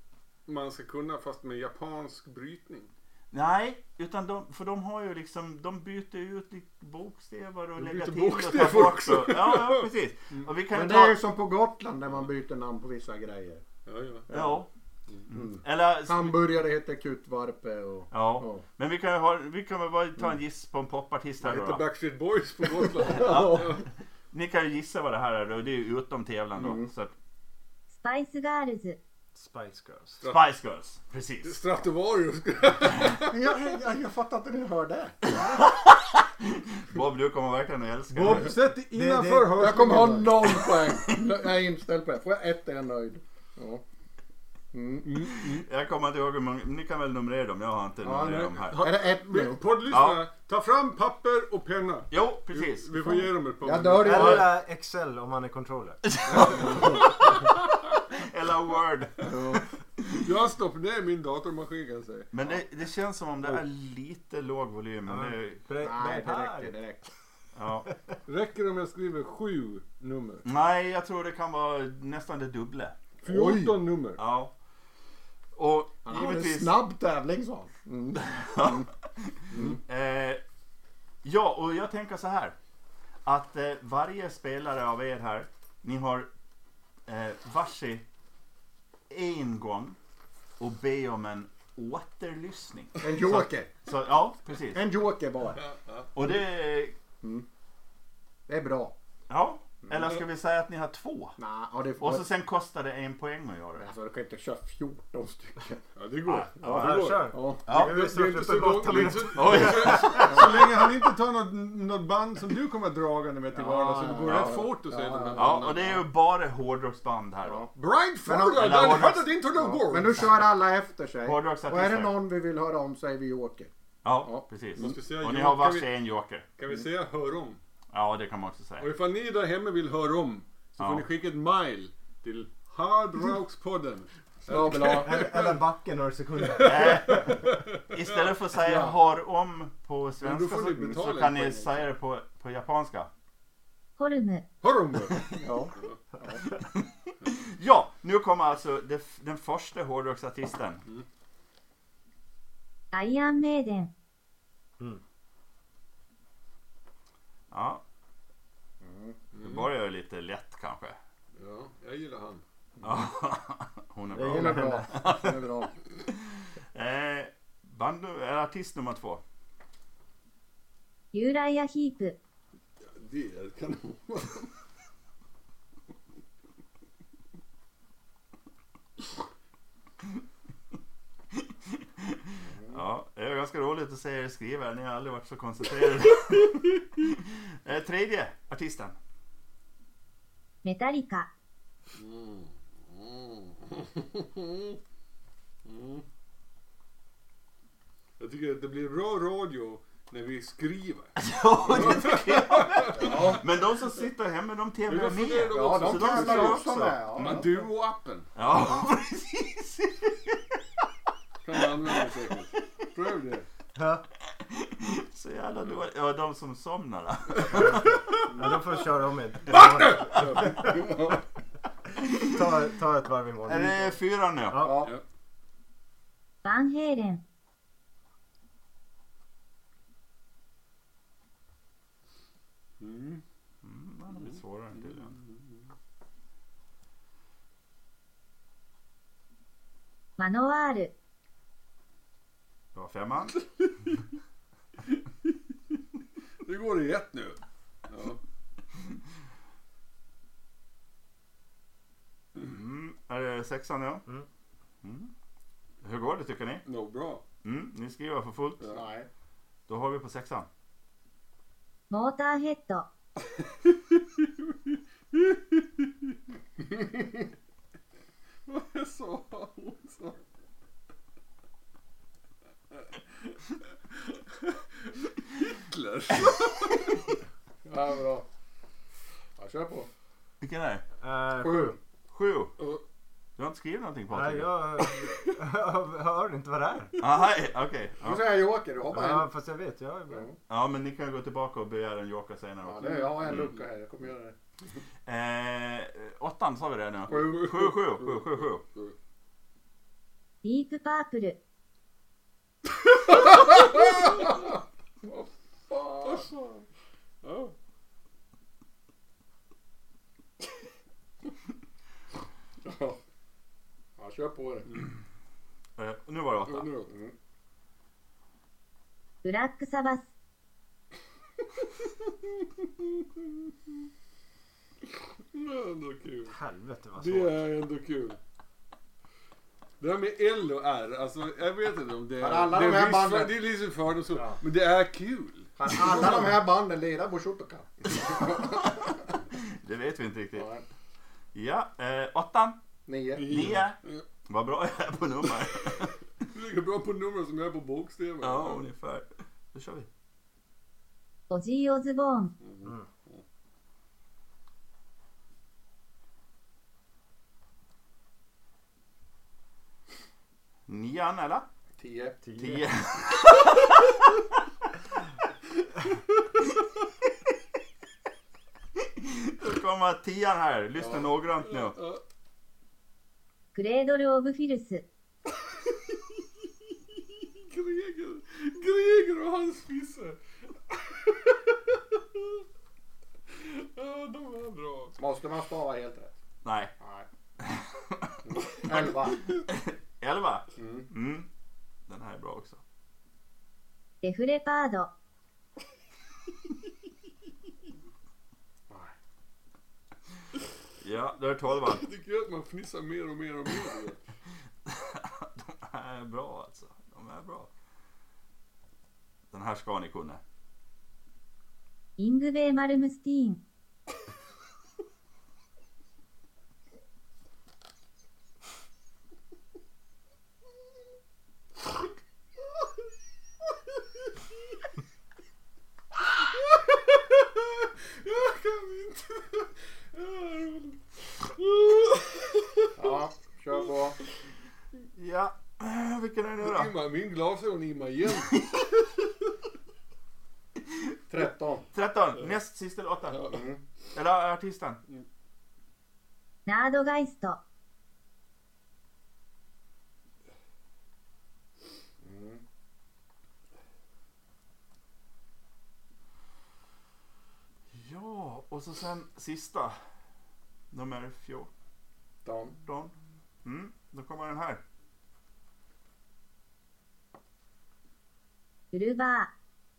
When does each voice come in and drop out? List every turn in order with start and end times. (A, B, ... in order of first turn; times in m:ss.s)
0:00.5-0:02.9 A
0:03.3-0:11.2 B
0:07.8-0:10.5 A
0:10.8-0:13.6 C
0:13.8-0:14.3 A
0:14.3-0:14.6 C
0:14.3-0:14.7 B
0:15.3-0:16.4 B
0:15.3-0:18.6 C
0:18.1-0:21.8 B
0:21.4-0:23.8 A
0:23.1-0:27.1 B
0:26.6-0:26.9 C
0:27.9-0:29.0 D
0:29.3-0:30.2 E
0:30.2-0:30.4 A
0:30.2-0:31.6 B
0:31.4-0:33.4 A
0:33.3-0:35.2 C
0:35.4-0:38.6 B
0:38.1-0:40.6 A
0:38.9-0:40.2 E
0:39.5-0:43.8 C
0:40.5-0:41.0 B
0:44.7-0:45.1 C
0:45.0-0:45.6 A
0:45.2-0:48.9 B
0:48.0-0:49.7 C
0:48.2-0:54.5 A
0:49.9-0:50.3 B
0:52.1-0:53.3 B
0:53.6-0:54.6 C
0:54.0-0:56.5 E
0:56.1-0:57.5 B
0:56.5-0:56.9 C
0:58.1-0:59.3 B
0:59.2-0:59.7 C
1:00.2-1:02.3 A
1:02.3-1:05.6 B
1:05.0-1:06.8 E
1:05.8-1:07.1 C
1:07.6-1:07.9 B
1:08.2-1:10.4 A
1:10.4-1:12.9 B
1:13.2-1:14.2 A
1:13.2-1:13.8 C
1:14.2-1:14.5 B
1:15.5-1:16.8 B
1:16.0-1:18.9 C
1:18.1-1:20.4 B
1:19.5-1:19.8 C
1:21.2-1:22.5 B
1:23.2-1:26.3 B
1:27.1-1:28.0 B
1:29.1-1:30.0 B
1:30.6-1:34.8 B
1:33.0-1:33.7 C
1:34.7-1:35.6 C
1:35.5-1:36.1 A
1:36.1-1:37.0 B
1:37.2-1:37.4 C
1:38.5-1:38.9 C
1:39.3-1:41.4 B
1:41.4-1:42.2 C
1:42.0-1:43.9 B
1:43.8-1:47.9 C
1:46.0-1:56.0 A
1:46.6-1:50.4 E
1:47.7-1:48.0 B
1:49.3-1:50.4 B
1:53.5-1:56.0 C
1:55.4-1:57.7 B
1:57.4-1:57.7 C
1:57.7-2:00.4 A
1:58.2-1:58.9 C
1:58.6-1:59.3 B
1:59.5-2:03.7 C
2:01.2-2:02.2 B
2:04.0-2:06.4 B
2:04.2-2:05.0 C
2:04.8-2:05.9 A
2:06.6-2:07.6 A
2:07.9-2:08.9 B
2:08.8-2:15.6 A
2:10.8-2:11.1 B
2:14.5-2:15.1 C
2:15.0-2:17.4 E
2:16.4-2:18.3 A
2:16.6-2:17.3 B
2:17.9-2:23.1 B
2:18.6-2:18.9 C
2:20.2-2:21.8 A
2:24.0-2:24.4 D
2:24.6-2:25.3 A
2:25.4-2:26.4 C
2:26.7-2:30.8 B
2:32.9-2:33.9 D
2:37.5-2:37.8 B
2:38.8-2:39.2 C
2:39.3-2:39.7 A
2:39.4-2:41.0 B
2:41.4-2:42.4 A
2:42.8-2:45.4 B
2:44.1-2:45.3 E
2:44.2-2:45.7 C
2:46.0-2:49.2 B
2:51.1-2:52.1 D
2:52.8-2:54.5 A
3:01.4-3:09.0 B
3:02.4-3:02.8 C
3:10.6-3:11.3 D
3:12.0-3:14.8 A
3:15.6-3:16.0 A
3:18.2-3:21.1 A
3:21.2-3:27.3 B
3:21.7-3:23.4 A
3:23.0-3:23.4 C
3:24.9-3:28.3 A
3:25.5-3:27.6 C
3:28.3-3:30.4 B
3:31.4-3:33.4 A
3:33.8-3:34.0 E
3:34.4-3:38.0 B
3:37.5-3:40.6 E
3:39.5-3:41.2 A
3:40.1-3:40.5 B
3:42.2-3:44.9 E
3:43.4-3:44.7 B
3:44.6-3:44.9 C
3:46.4-3:47.2 D
3:52.8-3:53.2 A
3:53.6-3:55.1 B
3:54.1-3:55.6 A
4:00.2-4:00.9 D
4:02.7-4:03.4 B
4:04.9-4:05.3 A
4:06.4-4:08.2 A
4:12.3-4:14.0 B
4:14.8-4:15.1 B
4:15.8-4:16.6 B
4:16.6-4:17.2 A
4:17.4-4:18.7 B
4:18.7-4:19.1 C
4:19.7-4:20.5 B
4:21.9-4:22.9 D
4:25.1-4:25.6 A
4:28.5-4:30.2 A
4:33.9-4:37.1 A
4:37.6-4:38.2 C
4:39.4-4:39.9 C
4:40.4-4:40.8 B
4:41.0-4:41.7 E
4:41.4-4:41.7 C
4:42.1-4:42.6 B
4:43.4-4:44.5 B
4:44.1-4:46.9 E
4:47.0-4:48.4 B
4:48.0-4:49.3 C
4:48.9-4:50.3 E
4:50.1-4:50.4 C
4:50.5-4:53.5 B
4:52.6-4:54.3 C
4:55.0-4:58.6 B
4:57.1-4:58.9 A
4:57.1-4:57.4 C
5:00.4-5:01.4 D
5:03.5-5:04.3 A
5:05.0-5:06.3 C
5:06.0-5:06.6 A
5:07.2-5:07.5 A
5:12.6-5:13.0 C
5:14.0-5:14.8 C
5:15.8-5:16.7 B
5:16.4-5:16.9 A
5:16.9-5:17.1 C
5:19.2-5:20.0 D
5:22.2-5:23.3 A
5:25.3-5:26.3 A
5:26.3-5:27.4 E
5:27.0-5:28.2 A
5:29.8-5:36.2 A
5:32.2-5:33.4 C
5:34.1-5:34.4 C
5:35.6-5:38.8 C
5:38.6-5:40.5 B
5:40.3-5:40.6 C
5:41.3-5:42.6 B
5:42.8-5:43.3 C
5:43.1-5:44.0 A
5:43.2-5:46.0 B
5:46.2-5:48.6 A
5:48.2-5:49.9 B
5:51.3-5:52.3 D
5:52.4-5:53.2 A
6:00.7-6:01.4 B
6:01.8-6:02.5 C
6:02.2-6:02.7 E
6:02.4-6:04.1 B
6:08.8-6:11.8 B
6:11.5-6:12.0 A
6:13.5-6:14.8 D
6:15.6-6:16.1 A
6:17.1-6:20.2 A
6:20.7-6:22.4 A
6:23.3-6:25.0 A
6:25.0-6:26.1 C
6:26.4-6:26.7 B
6:26.8-6:27.1 C
6:27.4-6:31.3 B
6:28.2-6:29.3 C
6:30.6-6:30.9 C
6:31.9-6:32.6 B
6:34.0-6:34.9 D
6:40.8-6:41.8 B
6:41.6-6:44.0 A
6:44.6-6:47.5 B
6:49.3-6:50.2 B
6:52.0-6:53.4 D
7:06.4-7:12.7 A
7:12.8-7:14.0 C
7:14.9-7:16.7 B
7:16.4-7:18.3 A
7:18.4-7:18.8 B
7:21.1-7:21.7 C
7:21.7-7:23.3 B
7:23.1-7:23.4 A
7:23.3-7:23.6 C
7:23.9-7:24.8 B
7:26.5-7:27.4 D
7:32.0-7:32.4 C
7:37.7-7:39.7 B
7:40.7-7:41.5 B
7:42.2-7:42.6 C
7:42.6-7:42.9 B
7:43.4-7:44.6 B
7:48.7-7:49.3 D